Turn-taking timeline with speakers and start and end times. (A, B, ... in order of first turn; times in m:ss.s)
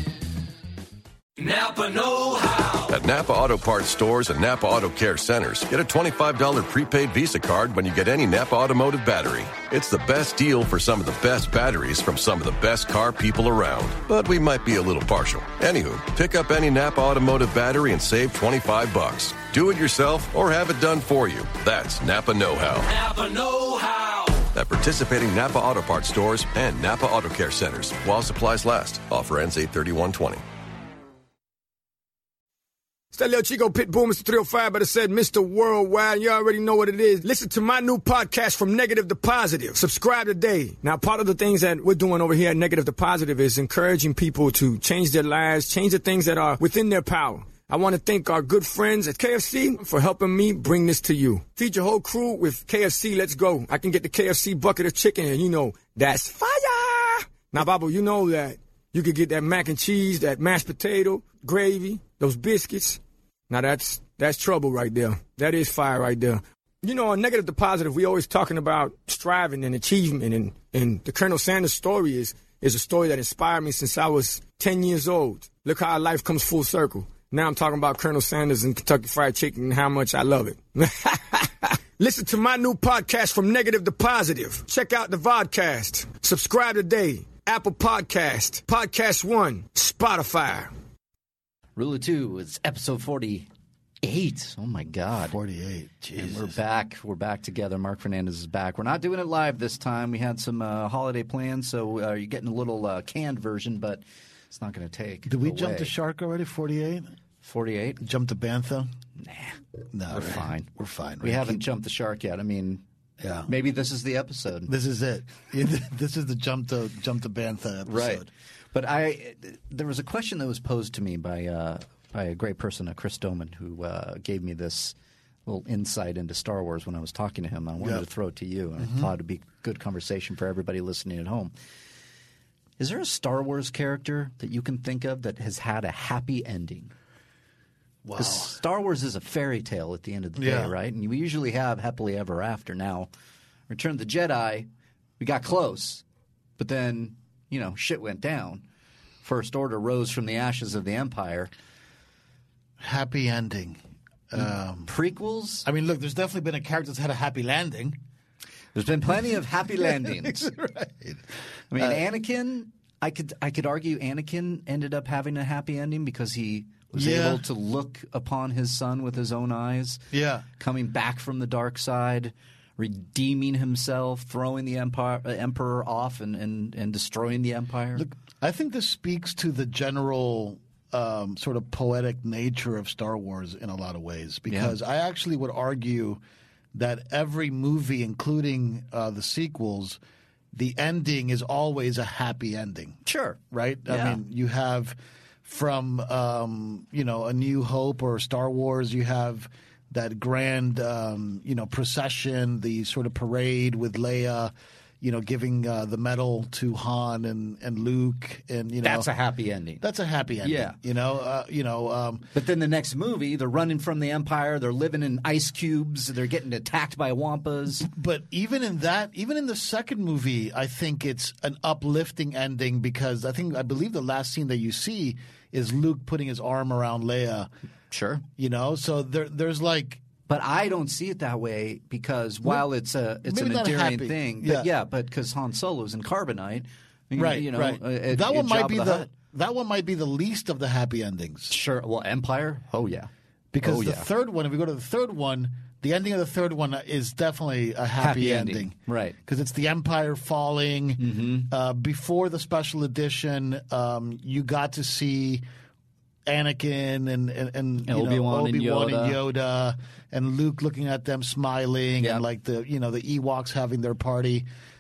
0:01.4-0:03.0 A
0:02.9-0:22.9 B
0:22.8-0:24.5 A
0:24.5-0:30.4 B
0:33.1-1:30.7 C
1:31.8-1:33.5 D
1:34.0-1:35.4 D
1:35.2-1:36.6 E
1:36.2-1:45.9 D
1:45.3-1:47.1 E
1:47.4-1:48.0 D
1:48.0-1:48.9 E
1:49.2-1:49.6 D
1:49.9-1:51.6 E
1:50.1-1:50.7 D
1:51.2-1:52.8 D
1:53.2-1:53.5 E
1:53.5-1:54.7 D
1:54.7-1:58.3 E
1:57.9-2:05.0 D
2:05.4-2:11.5 D
2:08.8-2:09.1 E
2:12.8-2:16.9 D
2:18.0-2:18.5 E
2:18.2-2:23.1 D
2:20.4-2:20.7 E
2:23.7-2:24.7 D
2:25.2-2:26.0 D
2:26.6-2:28.6 D
2:29.2-2:31.5 D
2:32.8-2:33.8 E
2:34.3-2:34.9 E
2:34.4-2:35.7 D
2:35.6-2:38.0 E
2:38.8-2:40.5 D
2:39.8-2:41.2 E
2:41.7-2:50.0 D
2:41.8-2:42.0 E
2:46.9-2:47.4 E
2:50.1-2:50.4 E
2:50.6-2:58.0 D
2:58.0-3:06.2 E
3:04.5-3:04.8 D
3:06.7-3:10.0 E
3:10.5-3:29.1 E
3:13.0-3:14.2 D
3:28.8-3:29.8 D
3:29.8-3:32.3 E
3:30.4-3:30.8 D
3:32.3-3:37.9 D
3:37.8-3:47.5 E
3:47.9-3:48.2 D
3:48.4-3:50.0 E
3:50.3-3:59.1 D
3:53.2-3:54.7 E
3:57.2-4:01.5 E
4:01.5-4:03.1 D
4:03.5-4:15.4 E
4:03.6-4:04.1 D
4:08.0-4:09.2 D
4:11.0-4:11.5 D
4:16.2-4:24.5 E
4:17.9-4:19.2 D